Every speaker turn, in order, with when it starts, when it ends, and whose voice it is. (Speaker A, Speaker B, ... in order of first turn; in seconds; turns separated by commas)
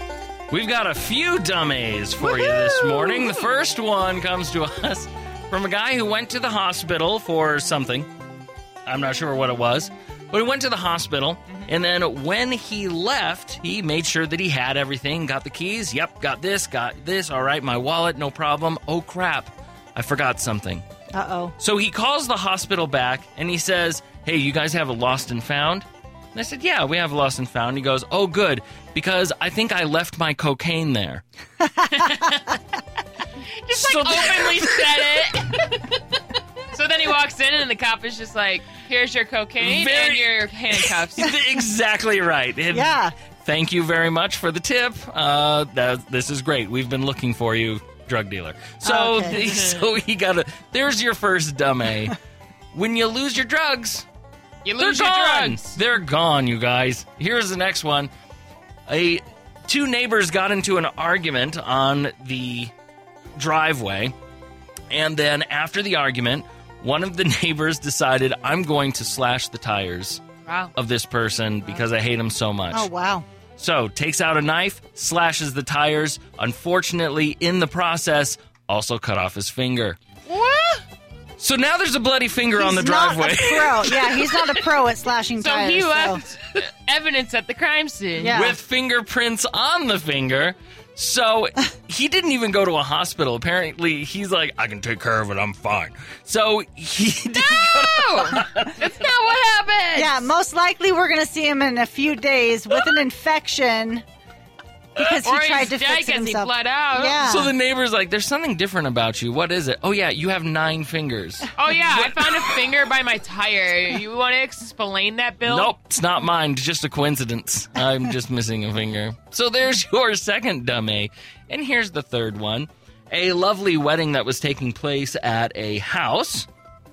Speaker A: 0.5-8.1, Speaker B: 2.6-3.0, Speaker A: 8.8-20.8, Speaker B: 21.1-21.5, Speaker A: 21.6-31.2, Speaker C: 31.9-32.6, Speaker C: 33.6-36.2, Speaker A: 33.7-34.4, Speaker C: 36.7-41.3, Speaker A: 39.6-52.1, Speaker B: 42.7-43.1, Speaker B: 48.8-49.4, Speaker A: 52.7-54.0, Speaker C: 54.6-55.7, Speaker A: 54.8-58.1, Speaker A: 58.9-62.7, Speaker A: 63.4-64.1, Speaker A: 64.9-70.2, Speaker A: 70.7-72.9, Speaker B: 72.7-73.2, Speaker A: 73.5-80.0, Speaker C: 80.3-80.8, Speaker A: 81.4-84.6, Speaker B: 82.5-86.2, Speaker C: 85.4-88.4, Speaker B: 88.2-88.6, Speaker A: 88.3-99.0, Speaker C: 97.3-100.3, Speaker B: 100.0-104.0, Speaker B: 105.0-107.5, Speaker C: 105.2-107.3, Speaker A: 107.2-112.4, Speaker C: 111.5-115.7, Speaker A: 115.4-126.5